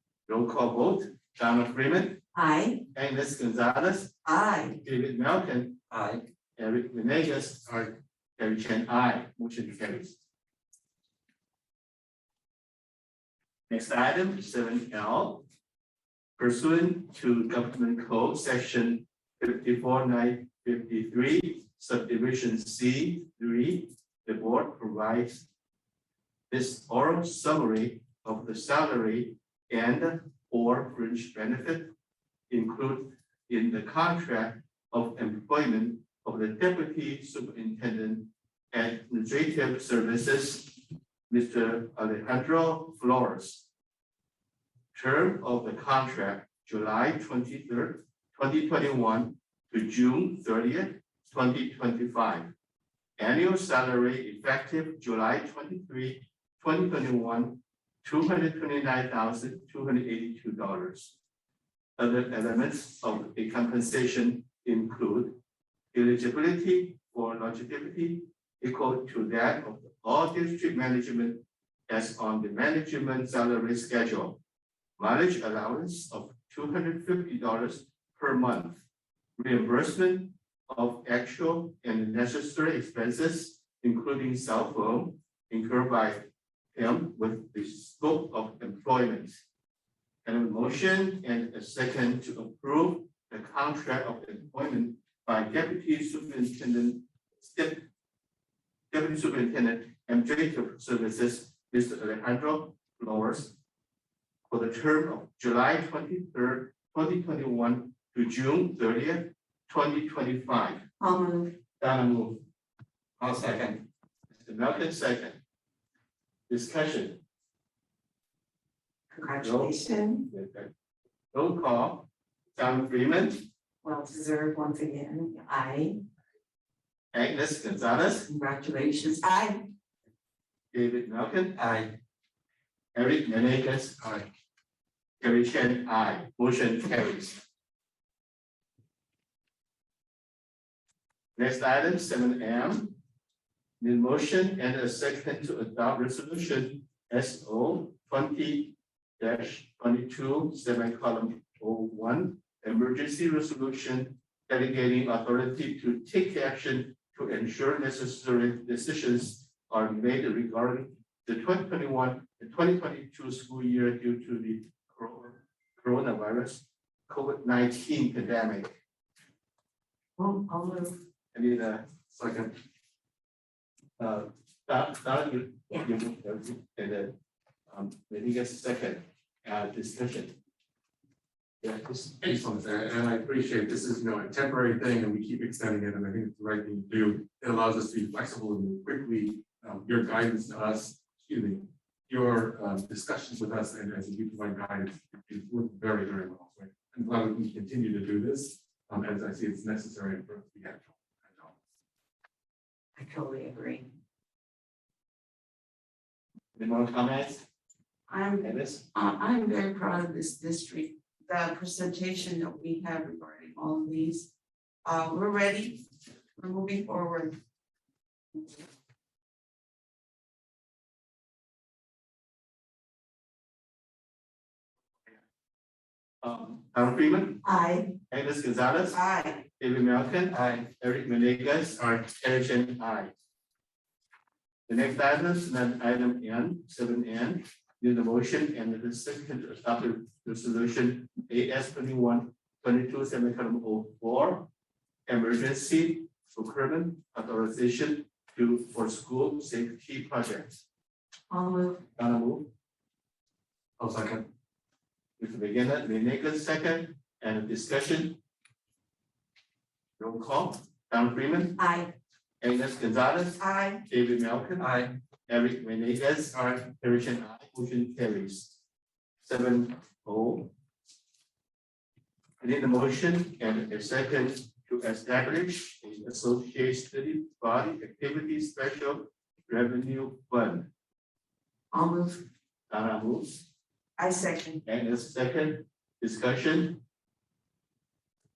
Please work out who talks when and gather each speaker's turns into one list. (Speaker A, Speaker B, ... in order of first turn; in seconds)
Speaker A: 0.3-2.2, 2.9-4.2, 4.8-5.8, 6.6-7.8, 8.4-10.2, 13.7-15.5, 16.4-25.5, 26.5-31.9, 32.5-43.6, 44.9-52.5, 53.2-61.2, 62.0-65.4, 65.9-74.4, 75.0-78.8, 79.4-89.4, 90.2-97.9, 98.9-103.6, 104.5-110.8, 111.8-112.4, 113.3-113.7, 114.3-115.4, 116.5-117.2, 119.4-119.8, 120.3-120.7, 121.3-123.5, 127.1-128.3, 130.7-131.6, 132.9-134.0, 135.2-137.4, 141.4-143.0, 143.8-168.8, 171.3-171.9, 174.0-177.2, 177.7-180.3, 181.6-182.2, 206.6-207.4, 208.4-208.8, 226.2-227.4, 228.1-229.1, 229.6-233.1, 234.7-244.5, 245.1-250.6, 252.0-252.5, 255.2-258.2, 260.0-261.6, 262.4-264.7, 265.3-268.6, 269.2-270.5, 272.4-280.7, 282.7-283.5, 284.6-286.8
Speaker B: 2.3-2.8, 4.2-4.8, 111.0-111.5, 119.1-120.3, 123.8-126.0, 128.3-129.7, 170.2-171.0, 203.0-203.9, 208.1-214.3, 214.8-215.8, 216.4-217.3, 227.4-227.9, 228.9-229.4, 251.3-251.8, 261.6-261.9, 263.4-263.8, 281.7-282.2, 284.0-284.6
Speaker C: 5.9-6.2, 113.2-113.8, 131.6-131.9, 230.3-230.6, 264.6-264.9
Speaker D: 134.0-134.3, 172.1-172.6, 182.2-201.6, 253.8-254.3, 266.3-266.6